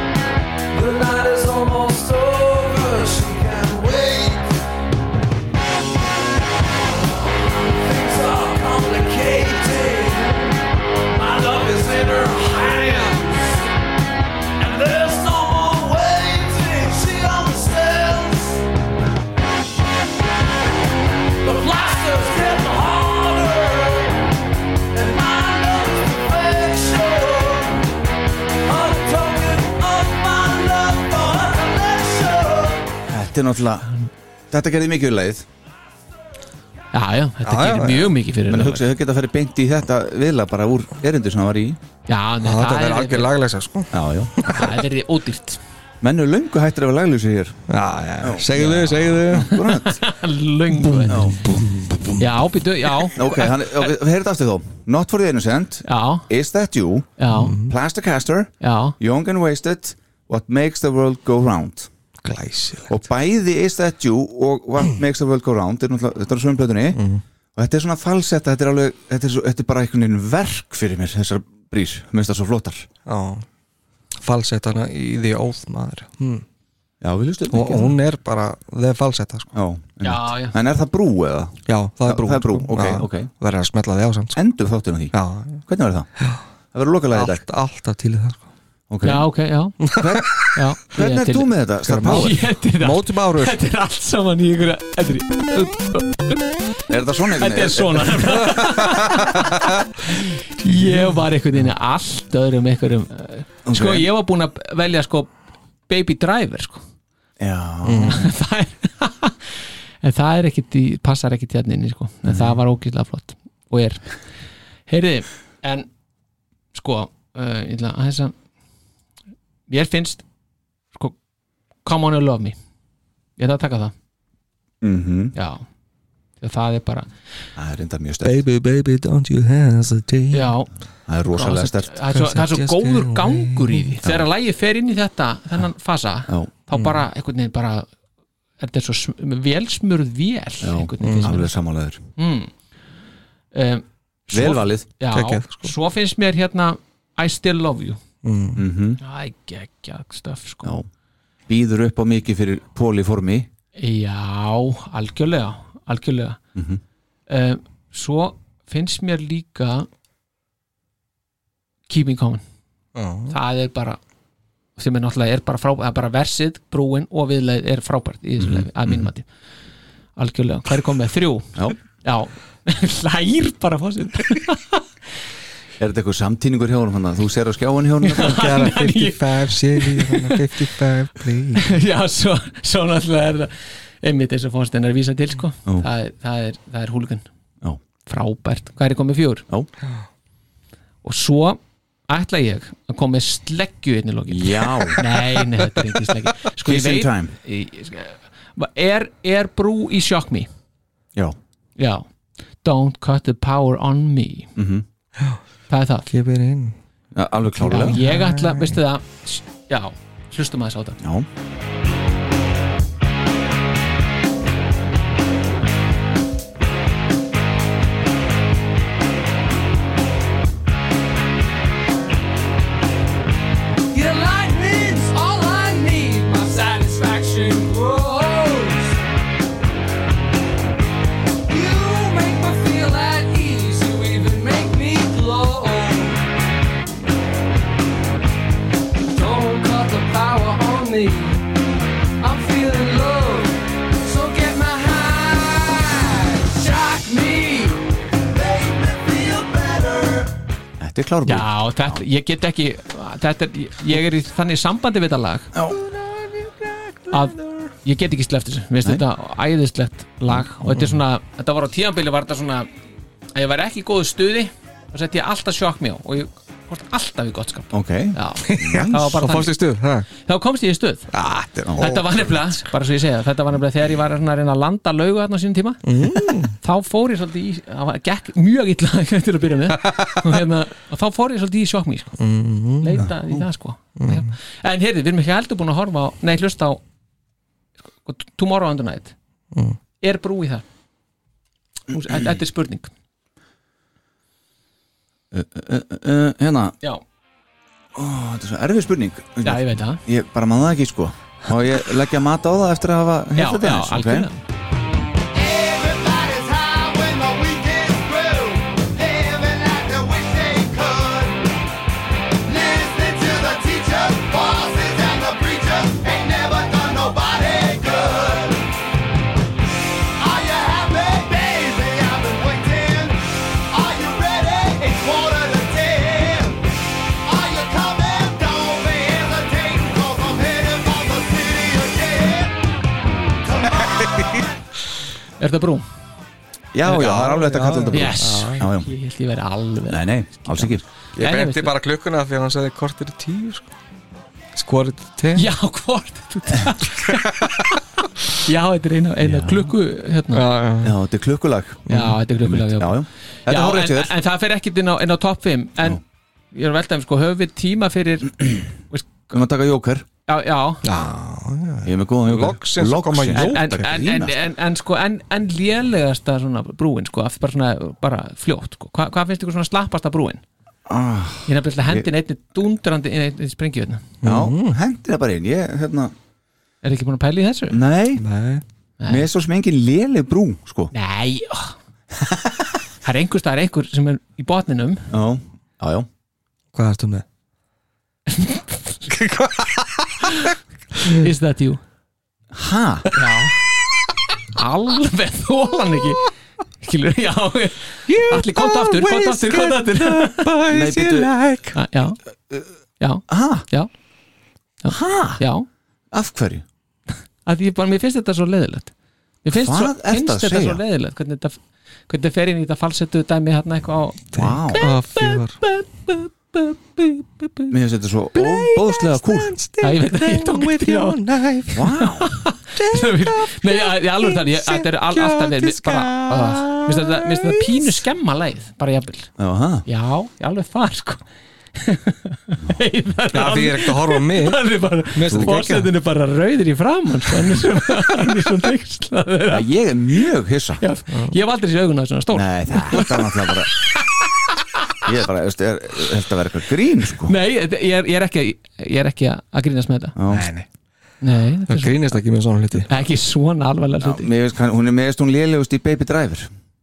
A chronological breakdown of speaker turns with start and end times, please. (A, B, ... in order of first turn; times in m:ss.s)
0:00.7-0:04.4 A
0:07.2-0:10.6 A
0:11.1-0:13.6 A
0:14.6-0:18.6 A
0:21.4-0:24.3 A
0:24.9-0:27.8 A
0:28.6-0:32.9 A
0:33.1-0:33.9 B
0:34.5-0:35.4 B
0:36.9-0:38.9 C
0:37.4-0:38.2 D
0:38.5-0:41.8 B
0:42.1-0:43.3 C
0:42.4-0:44.8 D
0:43.9-0:44.5 B
0:44.5-0:45.6 C
0:46.0-0:47.6 B
0:47.7-0:49.6 D
0:48.2-0:50.0 B
0:48.6-0:48.9 C
0:49.5-0:51.3 C
0:50.7-0:52.2 D
0:51.1-0:51.4 B
0:52.2-0:53.5 C
0:53.1-0:57.1 B
0:55.8-0:56.3 C
0:57.2-0:57.5 C
0:57.3-0:57.7 D
0:57.6-1:01.9 B
0:58.6-0:59.0 C
1:02.2-1:03.0 D
1:02.9-1:07.0 B
1:06.9-1:07.2 D
1:07.6-1:12.9 B
1:13.0-1:13.4 D
1:14.2-1:16.4 D
1:17.0-1:17.9 B
1:17.5-1:19.5 D
1:19.5-1:23.3 B
1:20.0-1:20.5 C
1:21.7-1:24.4 D
1:24.3-1:26.1 B
1:25.1-1:25.6 D
1:26.7-1:27.4 B
1:27.1-1:28.5 D
1:28.9-1:29.2 B
1:29.0-1:29.8 C
1:29.8-1:30.6 D
1:29.8-1:32.4 B
1:30.5-1:31.5 C
1:31.8-1:33.6 D
1:32.0-1:36.5 C
1:36.9-1:38.4 B
1:37.4-1:39.5 C
1:38.8-1:39.2 D
1:40.1-1:45.3 C
1:43.6-1:44.1 B
1:45.9-1:46.8 C
1:47.4-1:48.2 B
1:47.8-1:48.2 D
1:48.0-1:49.4 C
1:50.0-1:54.0 C
1:52.2-1:52.6 B
1:54.9-1:55.9 C
1:56.7-1:58.3 C
1:59.7-2:00.2 C
2:01.8-2:02.6 C
2:03.4-2:03.9 C
2:04.8-2:05.3 B
2:05.3-2:05.6 C
2:06.4-2:07.1 C
2:07.6-2:08.4 B
2:08.2-2:10.5 D
2:10.3-2:10.7 C
2:11.1-2:11.9 B
2:11.3-2:17.9 C
2:12.1-2:13.9 D
2:16.7-2:17.0 D
2:18.6-2:21.5 C
2:20.6-2:22.0 B
2:21.0-2:21.3 D
2:22.2-2:22.5 C
2:23.5-2:28.0 C
2:24.3-2:24.8 B
2:25.1-2:25.7 D
2:28.2-2:28.6 D
2:28.6-2:29.0 B
2:29.0-2:30.8 C
2:31.5-2:33.5 B
2:33.8-2:36.4 C
2:36.5-2:36.8 B
2:37.3-2:39.9 C
2:41.9-2:42.4 C
2:42.9-2:43.3 D
2:43.3-2:44.0 C
2:44.8-2:49.2 C
2:48.4-2:49.1 B
2:50.2-2:54.8 C
2:55.8-2:58.4 B
2:58.0-3:00.4 C
2:58.2-3:01.7 D
3:01.6-3:07.2 C
3:08.0-3:09.4 C
3:11.0-3:20.5 C
3:14.3-3:15.0 B
3:16.6-3:17.3 B
3:21.8-3:22.0 C
3:22.6-3:24.5 C
3:24.6-3:24.8 B
3:25.7-3:26.1 C
3:26.1-3:26.7 D
3:27.1-3:28.0 B
3:27.6-3:28.8 D
3:27.6-3:31.0 C
3:31.0-3:31.3 B
3:43.9-3:49.0 A
3:51.5-3:56.2 A
3:59.1-4:01.4 A
4:02.2-4:07.8 A
4:08.4-4:10.2 A
4:10.8-4:12.0 B
4:11.2-4:15.5 C
4:15.5-4:15.8 B
4:17.1-4:22.7 C
4:20.7-4:21.0 D
4:23.3-4:29.5 C
4:27.7-4:29.1 B
4:28.4-4:30.1 D
4:30.2-4:31.1 C
4:31.1-4:32.5 D
4:31.6-4:32.0 B
4:31.8-4:35.8 C
4:35.8-4:36.6 D
4:36.6-4:42.2 C
4:39.8-4:40.2 D
4:42.2-4:43.0 D
4:42.8-4:46.8 C
4:44.0-4:44.3 D
4:48.0-4:49.1 C
4:49.5-4:49.8 D
4:50.0-4:50.6 C
4:51.9-4:52.9 C
4:52.1-4:52.3 B
4:55.3-4:56.7 B
4:57.9-5:04.3 B
4:59.4-5:00.0 C
5:03.4-5:04.4 C
5:05.3-5:11.5 E
5:12.4-5:18.6 E
5:20.2-5:26.6 E
5:27.2-5:32.6 E
5:33.5-5:33.8 E
5:34.0-5:34.4 D
5:35.4-5:35.8 C
5:36.7-5:38.9 B
5:36.8-5:38.6 D
5:37.9-5:41.7 C
5:39.9-5:40.8 B
5:41.2-5:43.7 D
5:44.5-5:45.5 D
5:45.3-5:47.8 C
5:48.3-5:50.4 C
5:49.2-5:49.7 B
5:50.3-5:51.0 D
5:50.8-5:54.1 B
5:51.9-5:52.2 D
5:51.9-5:59.3 C
5:59.3-6:00.0 B
6:00.3-6:00.8 C
6:00.8-6:03.9 D
6:01.8-6:04.3 B
6:03.3-6:10.4 C
6:10.9-6:12.1 B
6:11.5-6:14.1 C
6:14.2-6:14.8 D
6:14.2-6:16.1 B
6:16.8-6:17.8 C
6:17.7-6:18.2 B
6:18.2-6:18.6 D
6:19.0-6:19.3 C
6:19.1-6:20.9 B
6:20.9-6:21.8 C
6:22.1-6:22.7 B
6:23.0-6:25.1 C
6:25.1-6:26.1 B
6:26.7-6:27.2 D
6:28.3-6:29.0 C
6:29.1-6:30.4 D
6:31.0-6:31.8 C
6:32.5-6:33.1 B
6:33.1-6:33.6 C
6:34.5-6:40.5 C
6:38.1-6:41.8 D
6:40.7-6:41.3 B
6:41.7-6:42.2 C
6:43.0-6:43.9 C
6:43.3-6:43.6 B
6:44.8-6:45.6 C
6:44.9-6:45.4 B
6:46.1-6:46.6 B
6:47.4-6:48.9 C
6:49.4-6:55.4 C
6:49.5-6:50.8 B
6:54.3-6:54.8 B
6:54.4-6:56.2 D
6:57.0-6:57.5 D
6:57.7-6:59.6 B
6:58.3-7:02.1 D
6:59.8-7:01.2 C
7:01.7-7:02.3 B
7:02.0-7:09.3 C
7:02.8-7:07.9 D
7:09.4-7:09.8 B
7:09.8-7:11.2 C
7:11.7-7:19.7 C
7:13.3-7:15.9 D
7:15.2-7:15.6 B
7:19.5-7:20.8 B
7:20.8-7:23.2 C
7:22.3-7:23.7 B
7:23.9-7:24.2 C
7:25.0-7:27.4 B
7:27.2-7:30.2 C
7:30.2-7:30.5 B
7:30.3-7:30.6 D
7:31.2-7:32.1 C
7:31.7-7:32.9 D
7:32.9-7:34.3 C
7:34.0-7:36.5 B